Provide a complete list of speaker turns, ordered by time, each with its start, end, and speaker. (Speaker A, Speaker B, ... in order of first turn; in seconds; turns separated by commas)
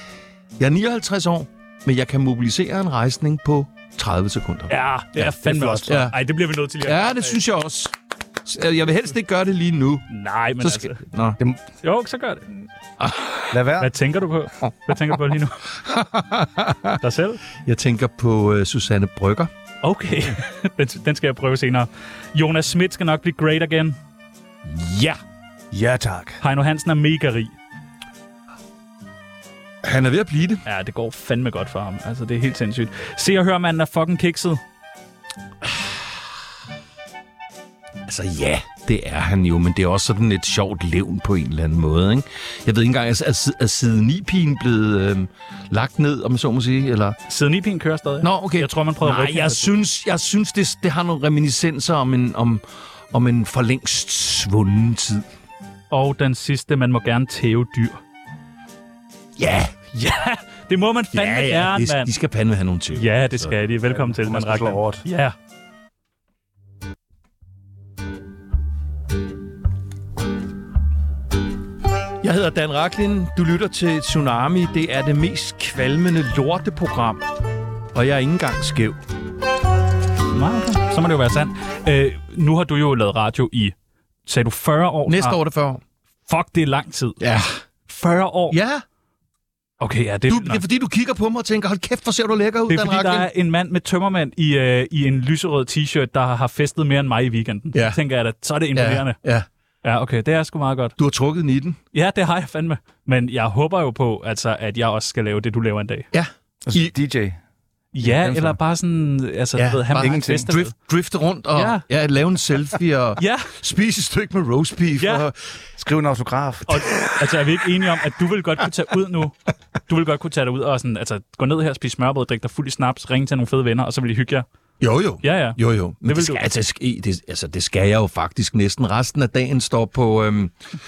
Speaker A: 0.6-5.3, Speaker B: 4.7-7.4, Speaker C: 5.4-5.9, Speaker A: 5.8-6.2, Speaker A: 6.8-10.1, Speaker B: 10.1-11.0, Speaker A: 10.6-11.4, Speaker B: 11.8-12.5, Speaker A: 13.0-13.6, Speaker C: 13.5-13.9, Speaker B: 13.8-15.6, Speaker A: 15.8-17.0, Speaker B: 17.0-17.4, Speaker A: 17.6-19.5, Speaker B: 19.8-24.0, Speaker A: 24.6-25.2, Speaker C: 25.7-26.4, Speaker B: 26.4-27.5, Speaker A: 29.8-30.6, Speaker B: 30.6-34.6, Speaker A: 38.1-47.2, Speaker B: 47.3-49.7, Speaker A: 48.2-55.2, Speaker B: 55.9-58.0, Speaker A: 59.4-59.7, Speaker B: 59.9-62.1, Speaker A: 61.1-63.5, Speaker B: 62.9-65.3, Speaker C: 63.9-65.0, Speaker A: 72.2-77.2, Speaker A: 77.9-79.0, Speaker B: 80.3-83.7, Speaker B: 84.2-85.4, Speaker A: 85.1-85.8, Speaker B: 86.3-87.2, Speaker A: 87.2-87.6, Speaker B: 87.9-88.6, Speaker A: 88.5-88.8, Speaker B: 89.8-90.6, Speaker A: 90.3-93.3, Speaker B: 92.7-99.2, Speaker A: 97.7-98.0, Speaker A: 98.7-99.5, Speaker B: 99.8-100.9, Speaker A: 101.0-101.8, Speaker B: 101.9-106.1, Speaker A: 106.1-106.9, Speaker C: 106.7-107.4, Speaker B: 107.9-110.7, Speaker C: 108.0-108.6, Speaker A: 109.6-115.3, Speaker C: 110.0-110.5, Speaker B: 111.5-111.8, Speaker B: 113.2-113.5, Speaker B: 115.0-115.2, Speaker C: 115.8-116.8, Speaker B: 116.7-119.3, Speaker B: 119.9-124.4, Speaker A: 124.8-130.5, Speaker B: 125.2-126.4